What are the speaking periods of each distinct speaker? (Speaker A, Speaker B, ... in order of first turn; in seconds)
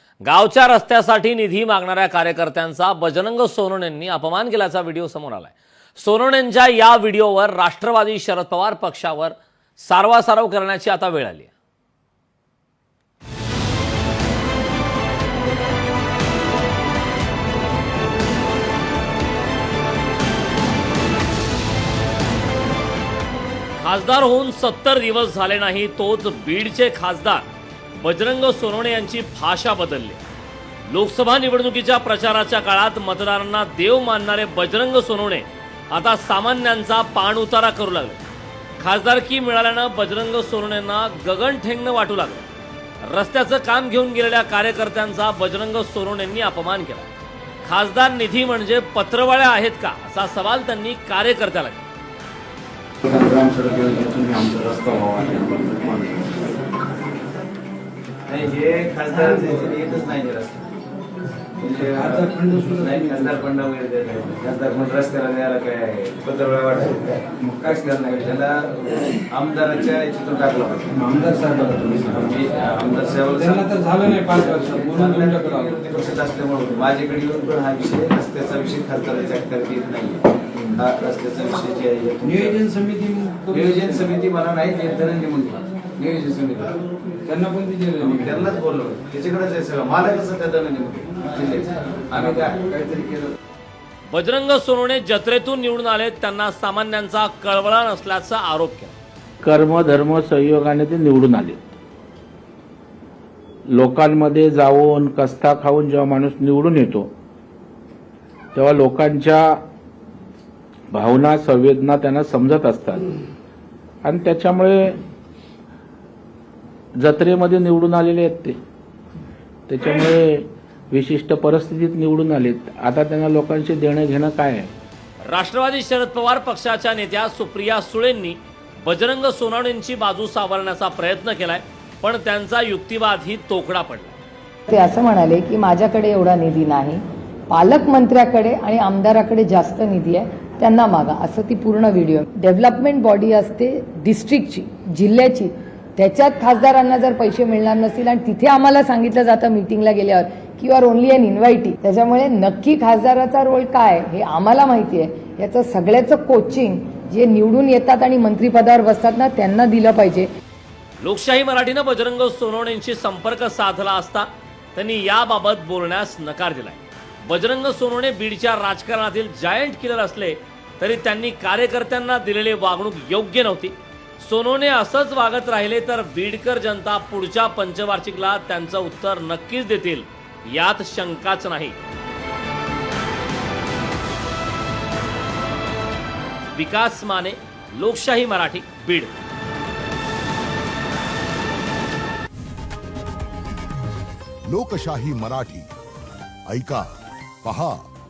Speaker A: 0.2-11.5, 23.8-27.5, 28.0-30.2, 30.9-38.2, 38.8-42.5, 43.0-47.1, 47.6-51.9, 94.1-98.9, 125.3-134.2, 161.0-181.8, 186.6-189.1
Speaker B: 53.1-56.1, 61.8-63.4, 70.9-72.3, 73.3-75.7, 82.2-84.0, 87.2-88.5, 92.7-93.3
Speaker C: 58.3-60.7, 61.6-71.0, 72.1-73.8, 74.3-80.2, 80.7-82.6, 83.5-86.8, 88.0-92.5
Speaker D: 99.4-101.7, 103.7-107.1, 108.5-109.6, 110.9-113.1, 114.0-115.0, 117.0-118.6, 119.7-124.7
Speaker E: 134.7-160.3
Speaker F: 194.5-195.7, 196.5-196.9, 197.4-197.8